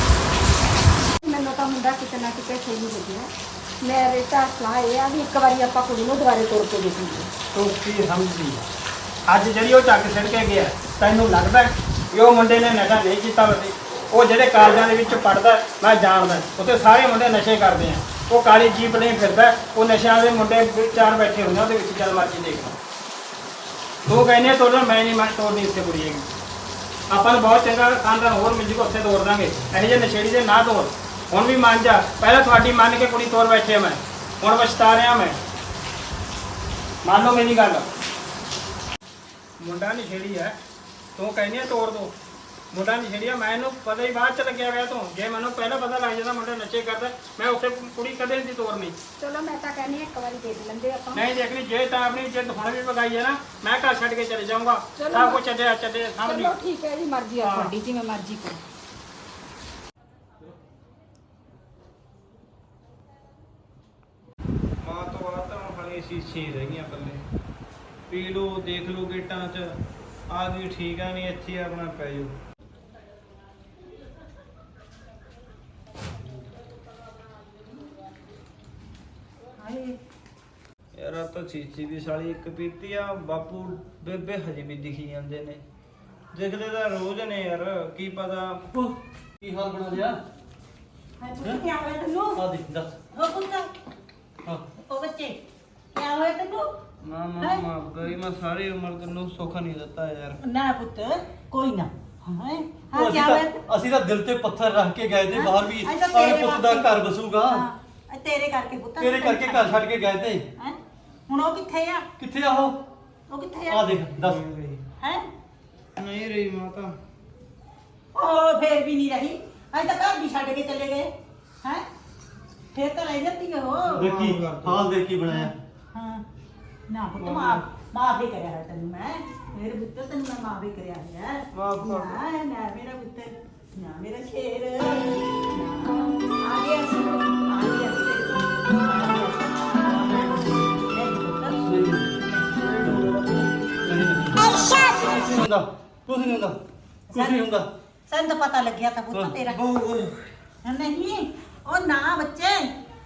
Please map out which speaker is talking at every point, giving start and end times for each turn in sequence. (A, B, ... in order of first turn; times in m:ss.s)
0:01.2-0:03.3 A
0:03.8-0:07.3 A
0:07.5-0:08.6 B
0:09.3-0:22.7 B
0:24.1-0:26.3 B
0:27.1-0:35.4 B
0:37.0-0:37.9 B
0:39.6-0:40.6 B
0:41.2-0:42.1 B
0:42.7-0:49.0 B
0:49.2-0:51.3 A
0:51.1-0:56.6 B
0:55.0-0:55.4 A
0:56.2-0:58.6 A
0:57.4-0:57.7 B
1:04.8-1:07.2 C
1:08.1-1:09.7 C
1:10.3-1:12.3 C
1:19.6-1:20.0 D
1:21.0-1:25.6 C
1:26.3-1:28.6 C
1:28.7-1:30.2 E
1:31.2-1:32.4 D
1:32.4-1:32.9 E
1:33.1-1:33.7 D
1:34.8-1:35.4 D
1:35.9-1:36.7 D
1:37.0-1:40.4 C
1:40.4-1:43.6 D
1:42.9-1:47.6 E
1:45.3-1:46.9 D
1:47.4-1:49.9 D
1:49.0-1:50.4 E
1:51.3-1:52.1 D
1:52.2-1:52.8 E
1:53.3-1:54.0 D
1:53.7-1:54.4 E
1:54.2-1:54.8 C
1:55.0-1:55.3 D
1:56.0-1:56.9 C
1:58.2-2:01.1 D
2:02.7-2:04.1 D
2:03.9-2:04.9 C
2:03.9-2:05.5 E
2:05.3-2:06.2 D
2:06.9-2:21.6 D
2:07.2-2:07.6 C
2:11.5-2:12.2 C
2:21.6-2:22.1 E
2:22.3-2:22.6 D
2:22.5-2:23.5 C
2:23.8-2:26.6 E
2:27.1-2:27.4 D
2:27.1-2:27.7 E
2:28.1-2:29.6 D
2:29.4-2:30.1 C
2:30.6-2:32.7 D